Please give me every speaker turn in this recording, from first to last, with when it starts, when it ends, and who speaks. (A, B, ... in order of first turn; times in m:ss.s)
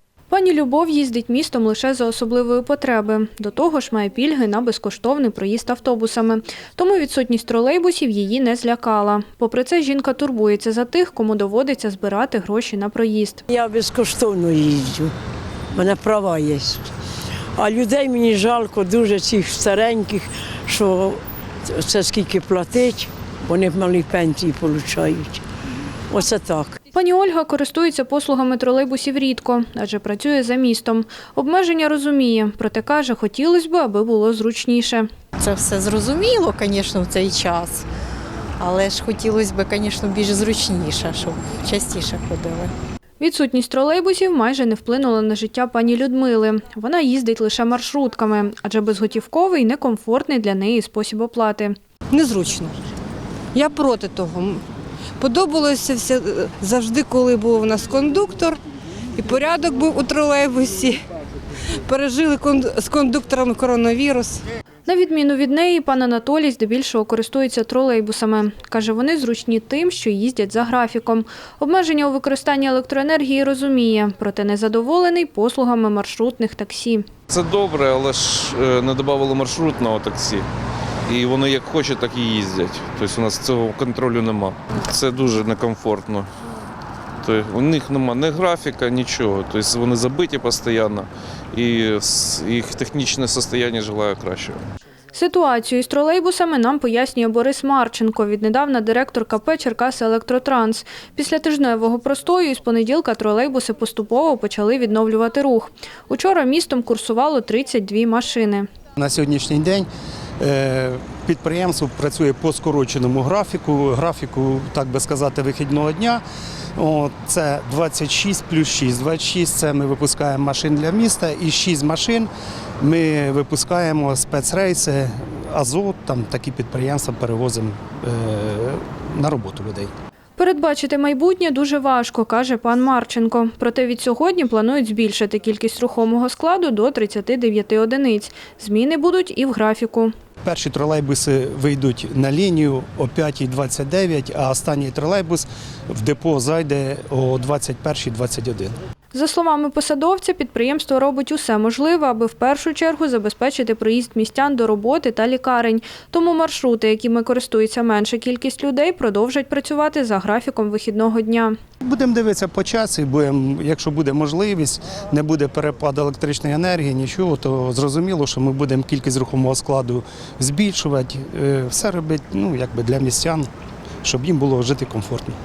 0:00.3-0:13.4 A
0:13.5-0:15.1 B
0:15.7-0:16.9 B
0:17.6-0:25.4 B
0:26.1-0:26.8 B
0:26.9-0:35.1 A
0:35.4-0:37.9 C
0:38.6-0:42.7 C
0:43.2-0:51.8 A
0:52.1-0:52.8 D
0:53.5-0:54.6 D
0:55.2-0:58.6 D
0:59.2-1:01.0 D
1:01.7-1:04.4 D
1:04.9-1:17.1 A
1:17.3-1:20.5 E
1:21.1-1:26.3 E
1:27.2-1:34.6 E
1:35.1-1:48.7 A
1:49.0-1:49.9 F
1:50.4-1:56.2 F
1:56.8-2:02.3 F
2:02.8-2:09.9 F
2:10.4-2:20.1 A
2:20.4-2:28.8 F
2:29.1-2:41.6 A
2:41.8-2:53.5 F
2:54.0-2:55.4 F